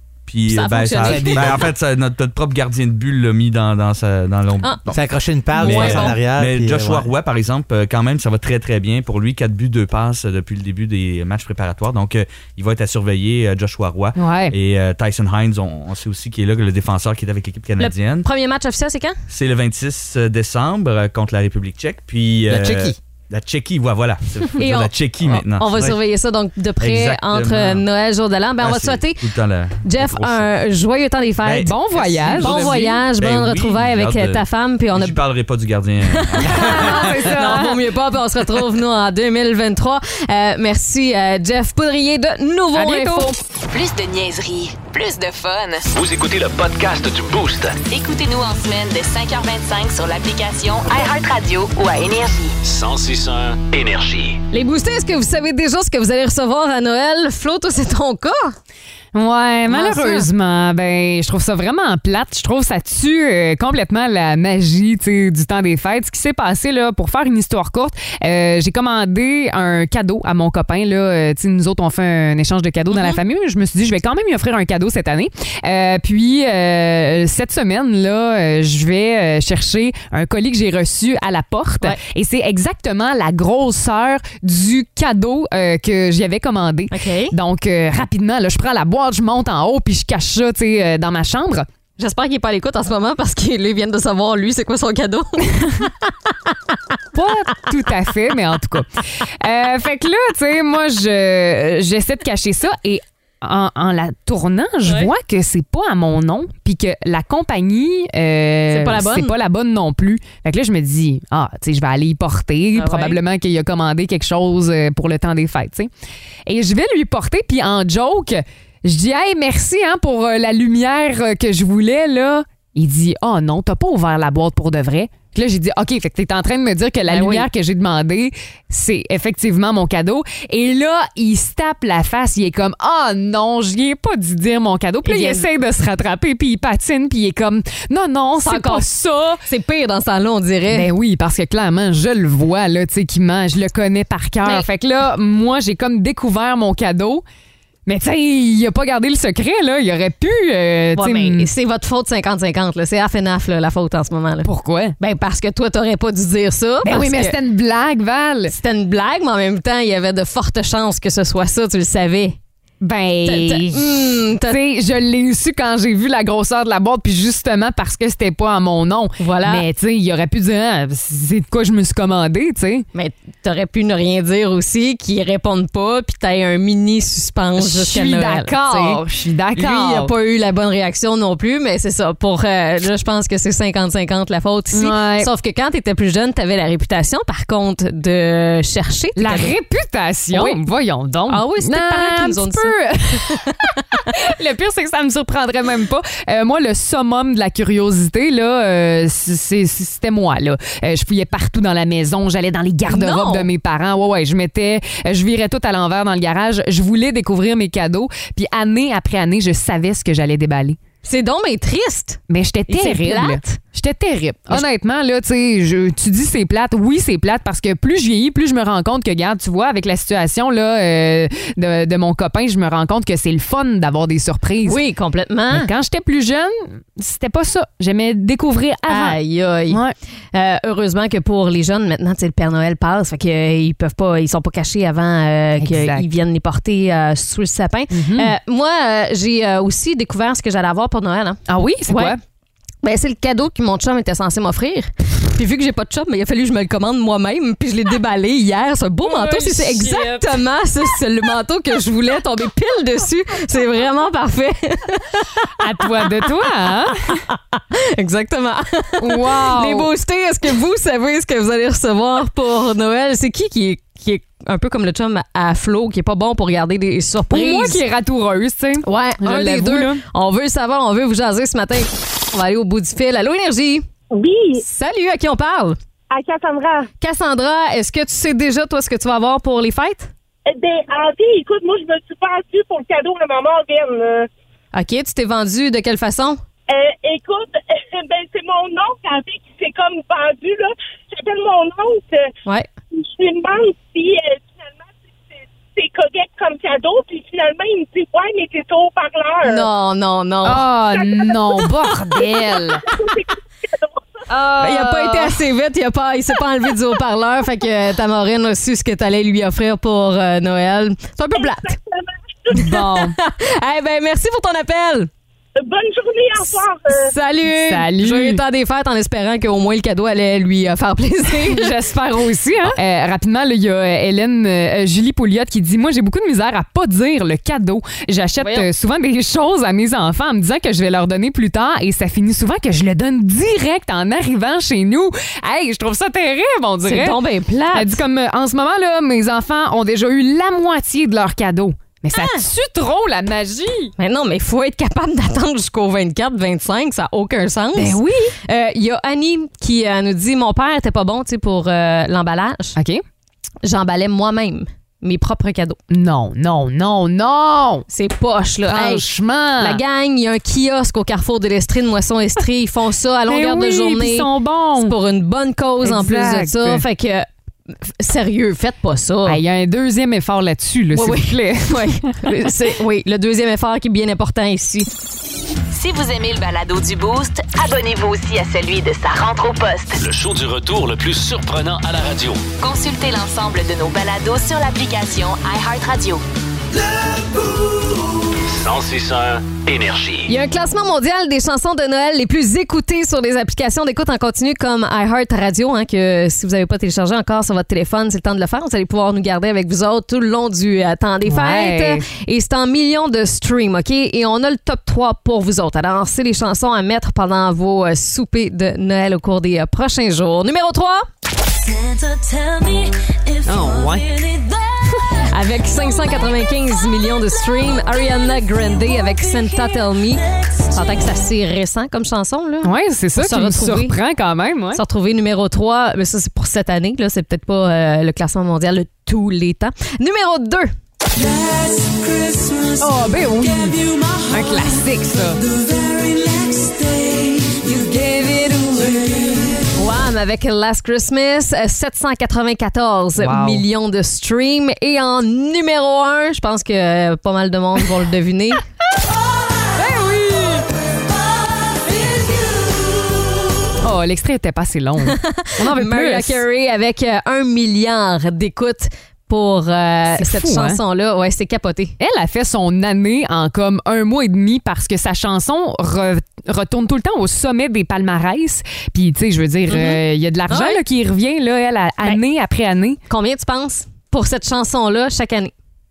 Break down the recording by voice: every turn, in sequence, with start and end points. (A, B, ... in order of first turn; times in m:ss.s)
0:00.3-0:05.0 A
0:00.5-0:01.7 B
0:01.0-0:01.7 C
0:04.9-0:07.1 C
0:05.5-0:06.2 B
0:05.6-0:18.3 A
0:14.2-0:14.5 D
0:17.8-0:19.2 B
0:19.3-0:26.0 A
0:22.5-0:23.0 C
0:24.6-0:29.2 B
0:26.8-0:27.8 A
0:28.6-0:30.5 A
0:29.8-0:31.7 B
0:31.4-0:37.2 A
0:31.6-0:32.8 D
0:32.4-0:35.2 B
0:32.4-0:32.8 C
0:36.1-0:43.4 B
0:36.5-0:37.8 D
0:42.7-0:43.3 D
0:43.7-0:45.9 E
0:45.9-0:47.8 F
0:47.9-0:52.6 E
0:52.6-0:54.4 F
0:54.5-0:58.6 B
0:59.1-1:31.7 D
0:59.7-1:00.3 B
1:12.9-1:13.2 B
1:26.9-1:27.4 B
1:32.0-1:36.5 B
1:37.1-1:55.9 D
1:48.7-1:49.3 B
1:52.8-1:53.2 B
1:56.5-2:19.4 D
2:07.1-2:07.5 B
2:15.0-2:15.5 B
2:18.4-2:18.9 B
2:19.4-2:20.9 B
2:20.7-2:27.2 D
2:27.9-2:31.5 D
2:31.0-2:34.5 B
2:34.4-2:35.0 D
2:35.0-2:37.4 B
2:36.8-2:38.5 D
2:38.5-2:42.4 B
2:42.8-2:52.8 D
2:43.3-2:44.6 B
2:49.2-2:49.6 B
2:52.9-2:59.0 B
2:57.6-3:00.1 D
2:59.6-3:09.5 B
3:04.7-3:05.3 D
3:09.2-3:30.8 D
3:10.3-3:10.6 B
3:11.3-3:13.6 B
3:22.9-3:23.5 B
3:31.0-3:33.6 B
3:32.3-3:44.8 D
3:44.6-3:45.7 B
3:45.5-3:50.0 D
3:48.9-3:49.8 B
3:50.3-4:02.2 B
3:55.6-3:56.0 D
3:57.9-3:58.3 D
4:01.5-4:02.2 D
4:02.8-4:15.5 B
4:09.0-4:10.4 D
4:15.6-4:17.2 D
4:17.3-4:27.8 B
4:19.0-4:19.9 D
4:27.3-4:30.0 D
4:28.8-4:33.9 B
4:34.1-4:34.6 G
4:34.6-4:35.8 B
4:36.1-4:36.9 G
4:37.0-4:40.1 B
4:40.5-4:44.3 G
4:44.7-4:46.4 B
4:46.7-4:52.3 G
4:53.0-4:59.6 G
4:59.4-5:00.7 B
5:00.4-5:02.8 D
5:00.9-5:02.3 G
5:02.8-5:04.2 G
5:04.3-5:05.4 D
5:04.6-5:11.8 B
5:11.4-5:12.6 G
5:12.5-5:13.2 D
5:12.6-5:15.1 B
5:15.6-5:17.1 G
5:16.9-5:21.8 B
5:17.5-5:18.4 D
5:21.3-5:37.2 D
5:28.4-5:28.7 B
5:36.8-5:38.0 B
5:37.7-5:43.9 D
5:42.2-5:42.4 B
5:44.0-5:52.8 B
5:47.7-5:48.4 D
5:52.8-5:53.0 D
5:53.6-5:55.8 B
5:55.9-5:57.9 D
5:57.9-6:07.3 B
5:58.7-5:59.8 D
6:03.3-6:05.0 D
6:05.8-6:06.8 D
6:07.8-6:09.4 B
6:09.3-6:12.2 D
6:10.9-6:14.9 B
6:15.7-6:20.0 E
6:20.0-6:22.4 F
6:22.6-6:26.2 E
6:28.5-6:30.3 F
6:30.3-6:51.1 B
6:41.2-6:42.1 D
6:53.4-6:54.3 D
6:55.1-7:04.0 B
7:02.6-7:04.8 D
7:04.7-7:10.7 B
7:12.8-7:15.5 D
7:17.3-7:19.6 D
7:19.7-7:28.6 B
7:23.2-7:23.6 D
7:29.8-7:30.6 D
7:33.8-7:36.4 D
7:35.0-7:42.0 B
7:40.2-7:40.8 D
7:42.0-7:53.0 D
7:49.7-7:50.8 B
7:53.1-7:55.5 B